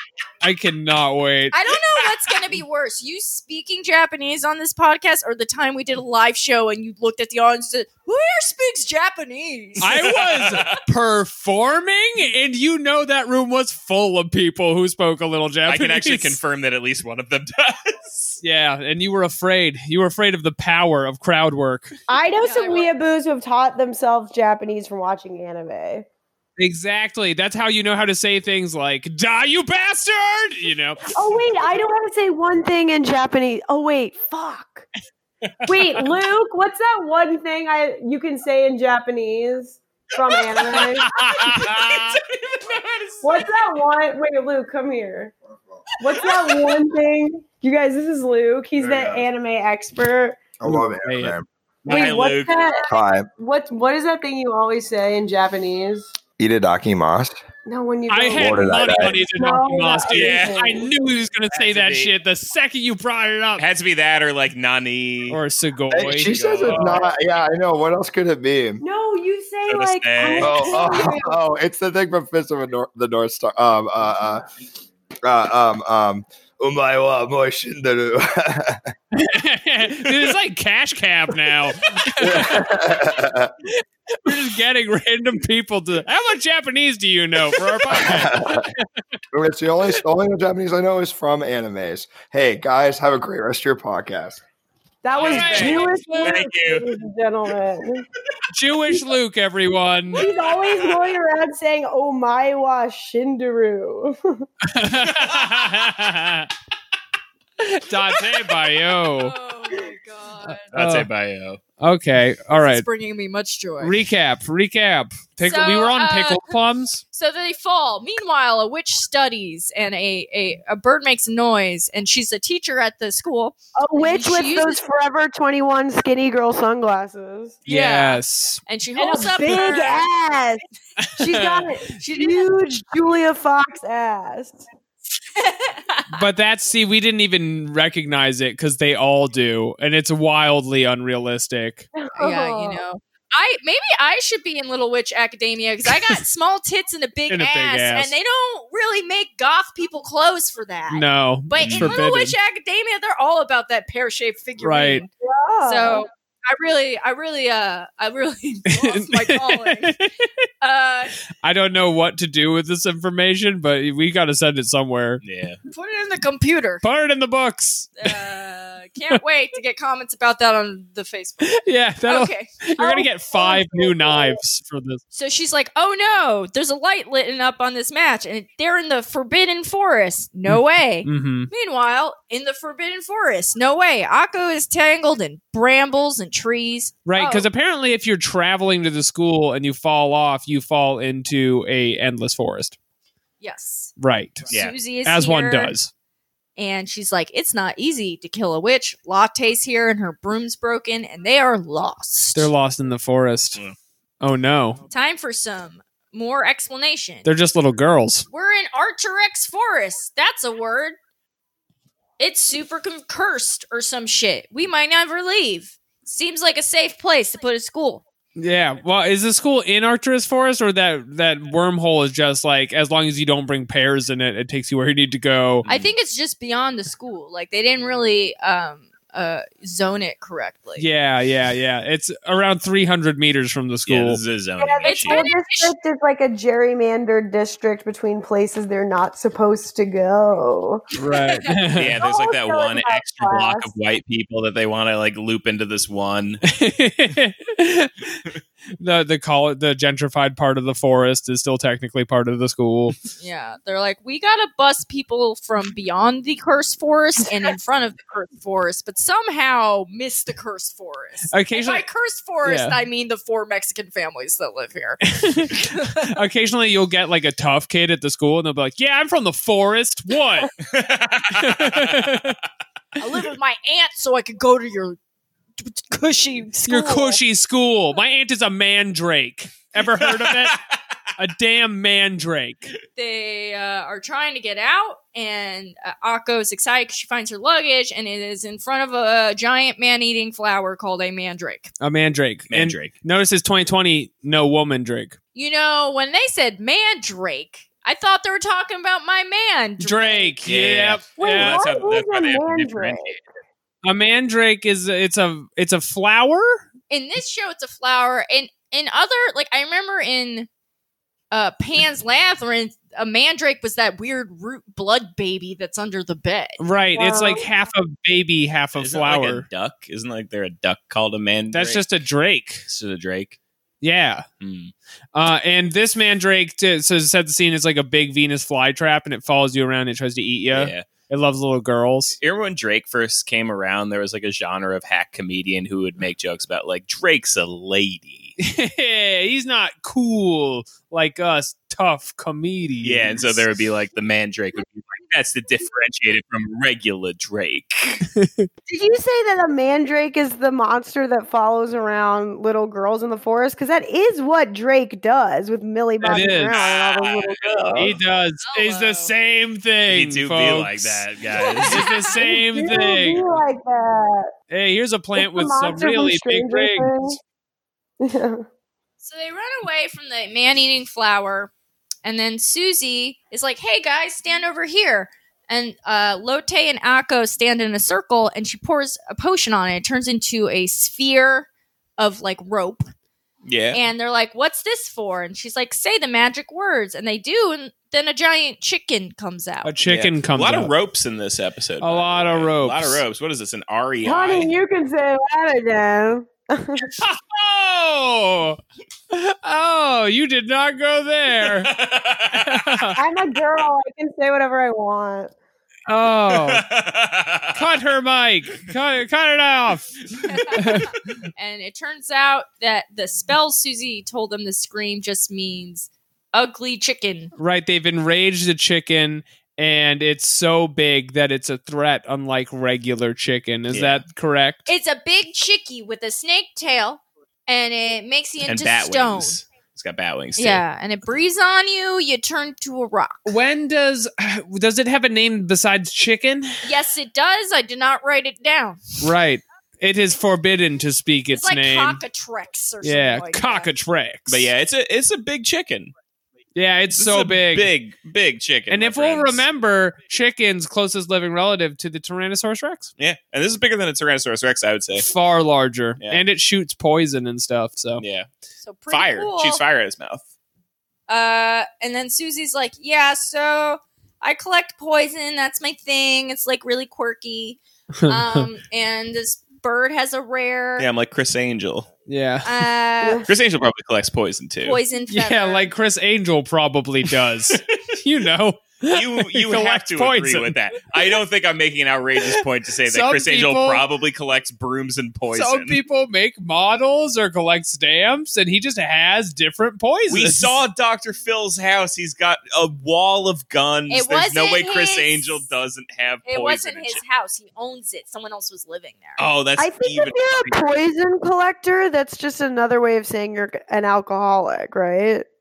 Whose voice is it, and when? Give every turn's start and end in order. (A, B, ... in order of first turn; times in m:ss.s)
0:00.4-0:01.6 A
0:01.5-0:10.1 B
0:09.8-0:16.4 A
0:09.8-0:10.8 C
0:15.7-0:18.4 C
0:18.4-0:21.9 A
0:22.1-0:26.0 D
0:22.4-0:22.9 B
0:26.6-0:31.2 A
0:31.1-0:34.8 D
0:35.6-0:36.1 A
0:35.6-0:41.1 D
0:40.7-0:42.2 A
0:41.4-0:43.7 C
0:43.2-0:45.3 D
0:46.0-0:50.4 D
0:46.2-0:46.7 B
0:48.8-0:49.2 E
0:50.6-0:51.4 E
0:50.6-0:51.4 A
0:51.8-0:52.6 C
0:51.8-0:56.1 D
0:52.9-0:53.3 E
0:56.4-0:57.4 E
0:57.7-0:58.7 D
0:58.1-1:03.6 A
0:58.4-0:59.1 E
0:59.3-1:00.9 D
1:00.0-1:00.8 C
1:01.5-1:02.1 C
1:03.6-1:05.4 C
1:05.3-1:07.0 A
1:05.9-1:08.8 E
1:06.2-1:07.0 C
1:08.8-1:11.4 D
1:09.7-1:10.8 C
1:10.4-1:14.4 E
1:15.2-1:18.8 E
1:19.1-1:23.0 A
1:22.1-1:23.5 E
1:23.6-1:28.9 A
1:28.0-1:28.7 E
1:29.3-1:34.4 E
1:35.0-1:38.0 D
1:35.1-1:36.8 C
1:35.1-1:36.4 A
1:38.5-1:40.2 A
1:40.1-1:44.4 D
1:44.6-1:46.5 A
1:45.2-1:45.6 C
1:47.6-1:49.3 A
1:48.5-1:50.6 B
1:50.5-1:51.1 A
1:50.7-1:51.6 C
1:51.8-1:52.8 A
1:52.6-1:54.0 B
1:53.8-1:57.0 A
1:55.4-1:56.6 B
1:57.1-2:04.8 B
2:03.8-2:07.6 D
2:07.6-2:10.1 B
2:07.6-2:08.6 A
2:09.0-2:10.6 D
2:11.0-2:11.8 A
2:11.2-2:14.6 D
2:11.9-2:12.5 B
2:15.3-2:16.2 B
2:16.1-2:21.9 A
2:22.0-2:22.8 D
2:22.2-2:35.1 B
2:27.3-2:28.1 A
2:30.9-2:32.4 A
2:31.6-2:32.0 C
2:34.6-2:35.0 A
2:35.2-2:36.0 D
2:35.6-2:40.0 B
2:38.7-2:40.3 A
2:40.6-2:41.1 B
2:41.4-2:45.2 A
2:45.2-2:45.6 C
2:45.7-2:46.8 B
2:46.8-2:48.2 A
2:48.0-2:54.4 B
2:51.4-2:55.0 A
2:55.1-3:07.5 B
3:00.5-3:01.5 A
3:07.0-3:12.8 A
3:13.4-3:13.9 B
3:14.0-3:14.5 A
3:14.5-3:15.7 B
3:15.0-3:15.9 A
3:16.6-3:22.5 B
3:22.3-3:23.6 A
3:24.2-3:24.8 A
3:24.9-3:27.3 B
3:27.2-3:28.2 A
3:28.3-3:31.0 B
3:32.2-3:38.0 B
3:38.4-3:45.6 A
3:45.6-3:45.9 C
3:45.6-3:50.8 B
3:50.8-3:54.2 A
3:53.8-3:55.2 C
3:54.6-4:00.8 D
3:54.8-3:55.7 B
4:01.0-4:02.0 A
4:01.7-4:06.4 C
4:02.0-4:03.7 D
4:06.5-4:08.2 A
4:08.8-4:13.0 A
4:13.2-4:26.1 B
4:21.3-4:21.8 A
4:22.4-4:22.8 A
4:25.0-4:30.5 A
4:30.6-4:32.1 C
4:31.3-4:32.4 A
4:33.0-4:35.0 B
4:35.6-4:37.2 B
4:36.7-4:40.6 A
4:40.1-4:40.6 C
4:41.2-4:42.7 A
4:43.0-4:51.7 B
4:51.8-4:55.2 A
4:52.5-4:52.9 C
4:55.3-5:00.5 B
4:59.8-5:01.6 A
5:00.4-5:03.2 C
5:01.2-5:03.2 D
5:03.8-5:06.6 A
5:06.9-5:10.5 B
5:11.3-5:16.6 B
5:16.6-5:19.5 A
5:16.9-5:17.4 D
5:18.8-5:21.8 C
5:21.5-5:22.6 A
5:22.7-5:23.4 C
5:23.8-5:24.2 A
5:24.4-5:24.7 C
5:25.1-5:32.2 A
5:30.5-5:30.9 C
5:32.2-5:38.4 C
5:38.4-5:43.4 A
5:42.8-5:48.0 C
5:48.1-5:48.5 A
5:48.7-5:58.0 D
5:56.0-5:56.6 A
5:56.5-5:57.9 C
5:57.8-6:01.0 A
5:58.4-5:59.1 B
5:59.9-6:01.8 C
6:01.3-6:02.2 B
6:01.6-6:03.3 A
6:02.2-6:04.3 D
6:04.5-6:07.2 A
6:05.2-6:07.2 D
6:08.0-6:08.4 D
6:09.0-6:11.5 B
6:12.0-6:21.5 B
6:22.0-6:22.9 B
6:23.4-6:23.8 C
6:23.7-6:29.7 B
6:29.6-6:30.7 A
6:29.8-6:34.5 C
6:31.8-6:33.0 A
6:34.0-6:36.9 D
6:36.9-6:38.6 A
6:39.1-6:41.7 A
6:41.4-6:42.9 C
6:42.3-6:43.0 A
6:43.0-6:45.3 D
6:45.9-6:46.6 A
6:46.3-6:47.6 C
6:47.5-6:50.0 A
6:50.2-6:57.3 B
6:50.5-6:51.0 A
6:57.4-7:04.7 A
7:03.7-7:04.0 C
7:04.7-7:09.4 B
7:08.4-7:10.6 C
7:10.4-7:13.3 B
7:13.2-7:16.6 A
7:16.6-7:19.0 B
7:19.0-7:22.0 A
7:21.3-7:23.7 B
7:22.8-7:24.5 A
7:24.3-7:25.9 C
7:26.5-7:27.7 A
7:26.9-7:29.4 C
7:28.7-7:32.9 A
7:33.0-7:35.1 C
7:35.0-7:38.0 A
7:36.0-7:36.2 C
7:38.0-7:38.3 C
7:38.6-7:39.6 B
7:38.9-7:40.2 C
7:41.1-7:50.9 B
7:48.0-7:48.4 A
7:50.8-7:51.9 C
7:52.1-7:52.6 A
7:52.4-7:53.3 B
7:53.0-7:53.3 D
7:53.2-7:54.8 C
7:54.6-7:55.7 B
7:55.1-8:00.6 A
7:58.9-8:05.8 C
8:02.4-8:03.8 A
8:05.3-8:10.6 A
8:10.1-8:17.0 C
8:13.9-8:15.4 B
8:16.2-8:19.2 B
8:19.2-8:20.6 C
8:19.6-8:25.3 D